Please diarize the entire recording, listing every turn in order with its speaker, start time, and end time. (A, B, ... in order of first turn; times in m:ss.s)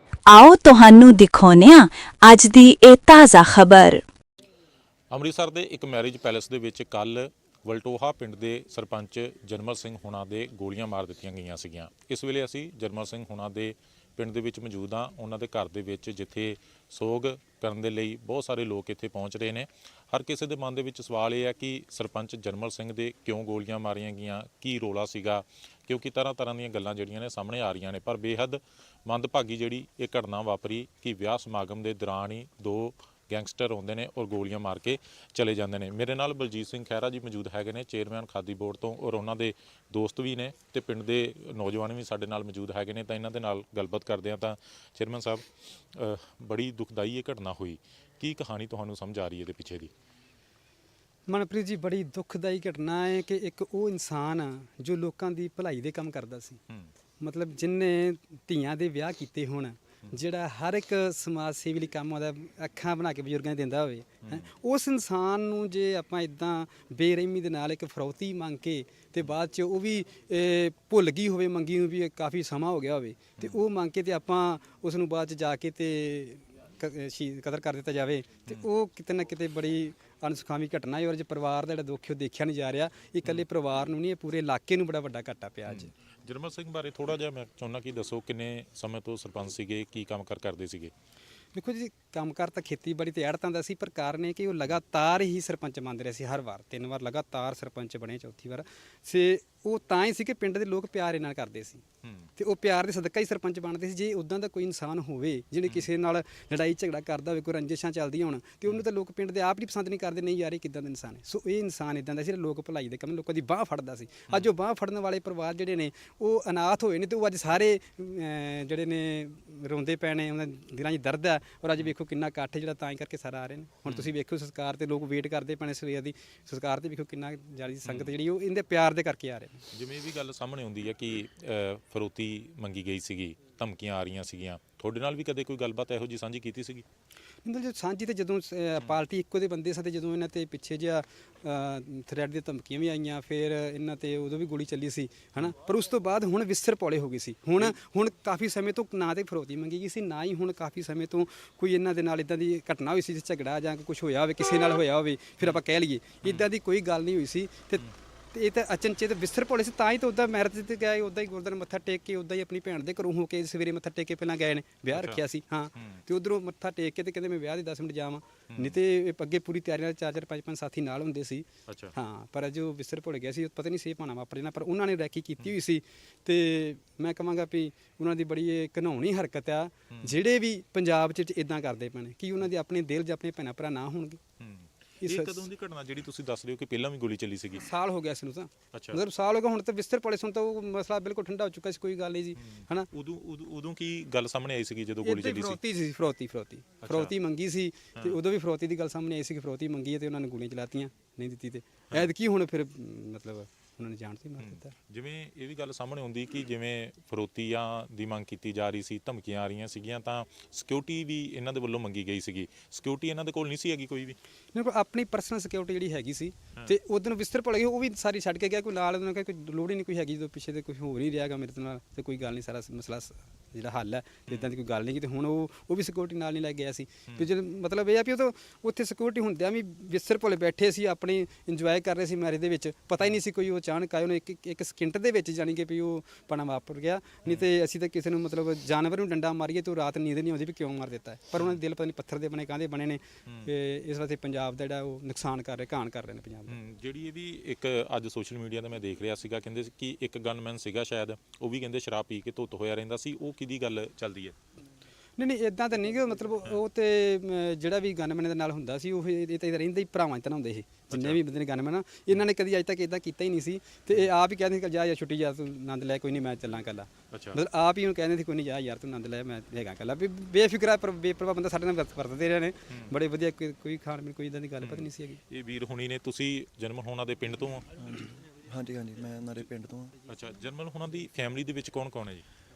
0:00.3-0:04.0 A
0:05.1-0:49.9 B
0:51.3-0:56.6 C
0:57.2-1:25.9 C
1:25.6-1:30.9 B
1:31.5-1:41.8 C
1:42.0-1:42.3 B
1:42.4-2:09.6 C
2:07.8-2:08.1 B
2:09.7-2:16.8 B
2:17.4-3:04.2 C
2:44.9-2:45.2 B
2:45.7-2:46.0 B
2:51.7-2:51.9 B
3:04.4-3:07.6 B
3:05.0-3:05.4 C
3:07.6-3:12.9 C
3:08.7-3:09.0 B
3:12.4-3:15.6 B
3:15.0-3:24.7 C
3:16.8-3:17.1 B
3:24.4-3:34.2 B
3:34.5-4:06.6 C
4:06.5-4:14.3 B
4:15.2-4:35.2 C
4:20.9-4:21.2 B
4:27.1-4:27.4 B
4:34.6-4:37.7 B
4:37.8-4:39.9 D
4:40.1-4:42.2 B